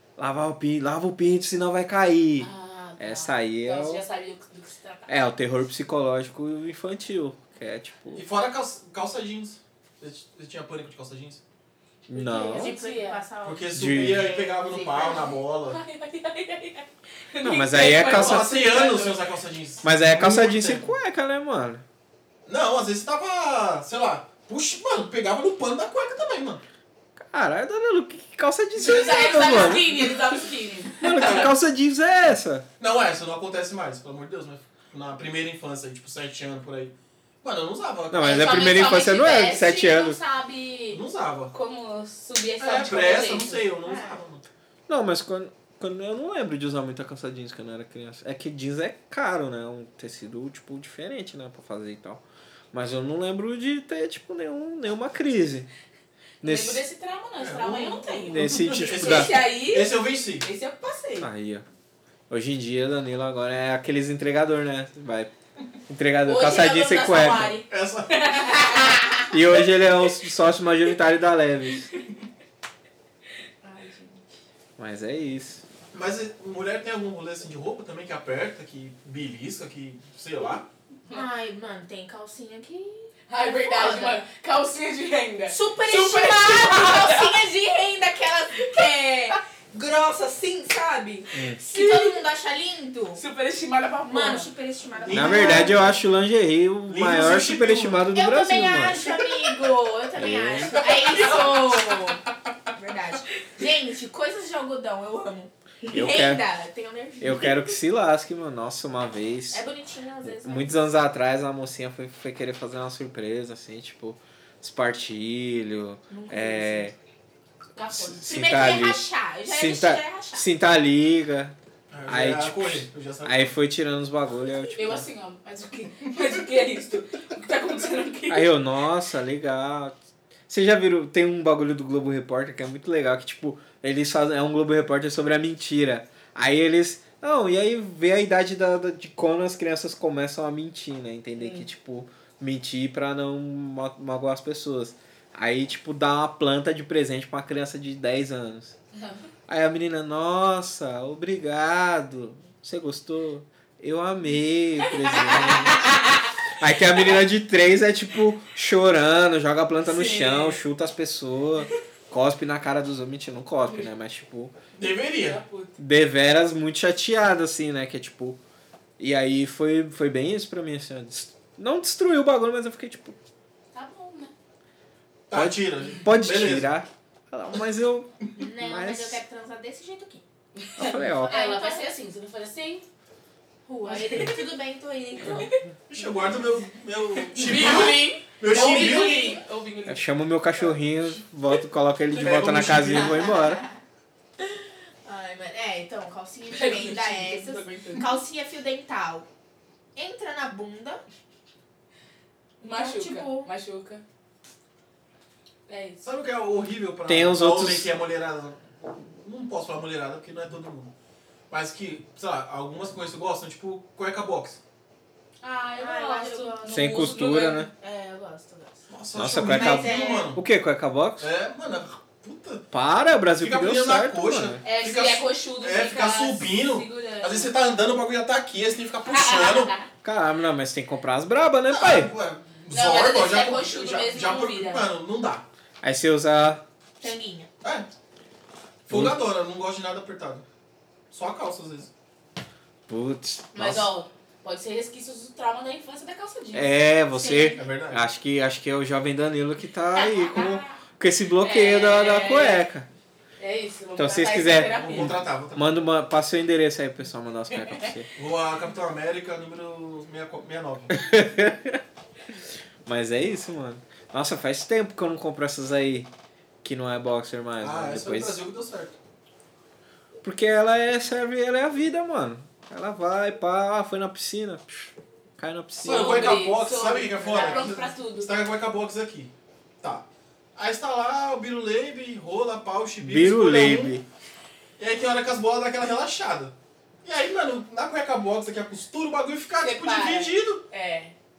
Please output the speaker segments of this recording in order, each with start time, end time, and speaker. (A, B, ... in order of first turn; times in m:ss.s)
0:00.2-0:04.0 A
0:02.4-0:05.1 B
0:05.1-0:08.2 A
0:08.1-0:11.4 C
0:12.1-0:12.7 A
0:12.1-0:13.2 B
0:12.5-0:15.4 D
0:13.4-0:15.8 C
0:13.7-0:14.3 A
0:15.7-0:19.2 B
0:17.4-0:18.8 A
0:17.7-0:20.9 C
0:19.8-0:21.8 A
0:22.4-0:26.6 C
0:27.2-0:30.0 A
0:28.8-0:31.5 B
0:31.0-0:32.6 A
0:32.8-0:38.4 C
0:38.1-0:40.2 A
0:38.2-0:43.7 B
0:40.9-0:41.5 C
0:42.6-0:44.4 C
0:43.8-0:44.2 D
0:44.9-0:52.2 A
0:52.7-0:55.7 A
0:56.4-0:56.8 A
0:56.4-1:01.3 B
0:57.4-1:00.4 C
0:58.3-0:59.4 A
1:01.2-1:01.6 A
1:02.3-1:05.3 A
1:05.9-1:07.6 A
1:06.2-1:09.4 B
1:07.7-1:08.5 C
1:09.3-1:11.9 A
1:13.6-1:14.2 D
1:14.8-1:15.6 A
1:15.9-1:20.7 C
1:21.1-1:24.2 D
1:23.3-1:27.4 B
1:25.5-1:33.2 D
1:31.7-1:32.2 B
1:33.2-1:34.5 B
1:34.1-1:35.8 D
1:35.0-1:36.0 C
1:35.1-1:39.0 A
1:36.9-1:38.1 C
1:38.1-1:47.7 D
1:40.1-1:40.8 A
1:41.0-1:42.0 B
1:45.9-1:46.4 A
1:47.2-1:49.6 A
1:49.5-1:50.9 D
1:50.2-1:56.9 A
1:56.1-1:56.9 D
1:57.8-1:58.2 B
1:57.9-2:05.1 A
1:58.1-2:00.5 D
2:01.9-2:03.5 C
2:04.7-2:08.5 B
2:08.3-2:09.9 A
2:10.5-2:28.7 A
2:21.4-2:21.6 B
2:28.9-2:29.2 B
2:29.5-2:36.0 A
2:34.8-2:36.2 B
2:36.6-2:44.5 A
2:39.8-2:40.6 B
2:44.8-2:45.4 C
2:45.1-2:45.7 B
2:45.8-2:48.4 A
2:49.0-2:53.2 A
2:53.7-2:54.3 B
2:55.3-2:56.7 C
2:55.3-2:59.2 A
2:58.4-3:00.2 D
3:00.6-3:02.8 B
3:00.8-3:01.3 A
3:00.8-3:01.8 D
3:03.6-3:05.5 D
3:03.8-3:04.6 B
3:05.2-3:05.6 B
3:05.9-3:09.3 C
3:07.1-3:10.0 B
3:07.5-3:07.8 D
3:08.5-3:09.4 D
3:09.9-3:13.6 A
3:12.1-3:13.3 C
3:12.9-3:13.8 D
3:14.4-3:19.3 D
3:16.5-3:18.1 B
3:20.0-3:21.0 D
3:22.6-3:24.0 B
3:22.7-3:23.5 D
3:25.7-3:26.0 B
3:26.0-3:30.9 C
3:27.0-3:27.9 A
3:31.5-3:34.6 C
3:35.4-3:37.7 B
3:35.8-3:38.8 D
3:36.7-3:37.7 A
3:38.9-3:40.4 C
3:39.1-3:41.3 A
3:39.4-3:40.3 D
3:41.2-3:42.6 C
3:42.7-3:44.6 A
3:43.4-3:49.7 C
3:44.6-3:47.5 B
3:49.1-3:49.9 B
3:50.0-3:52.1 A
3:51.7-3:55.4 C
3:52.7-3:54.9 B
3:55.8-3:56.6 A
3:57.0-3:57.5 D
3:57.6-3:57.9 C
3:58.9-4:00.4 C
3:58.9-3:59.2 A
4:01.1-4:01.9 C
4:02.9-4:03.9 A
4:03.5-4:06.7 B
4:06.5-4:12.9 A
4:07.1-4:07.6 D
4:07.5-4:08.0 C
4:09.9-4:10.7 B
4:11.4-4:12.7 B
4:13.4-4:15.2 B
4:14.0-4:18.1 A
4:14.6-4:15.8 C
4:17.5-4:17.9 B
4:18.2-4:21.0 C
4:20.9-4:21.8 A
4:22.8-4:26.1 A
4:26.6-4:28.4 A
4:27.6-4:28.9 C
4:30.2-4:36.4 A
4:35.8-4:44.0 C
4:35.9-4:38.3 B
4:37.2-4:37.8 D
4:43.0-4:44.0 A
4:44.8-4:50.6 C
4:49.6-4:51.1 B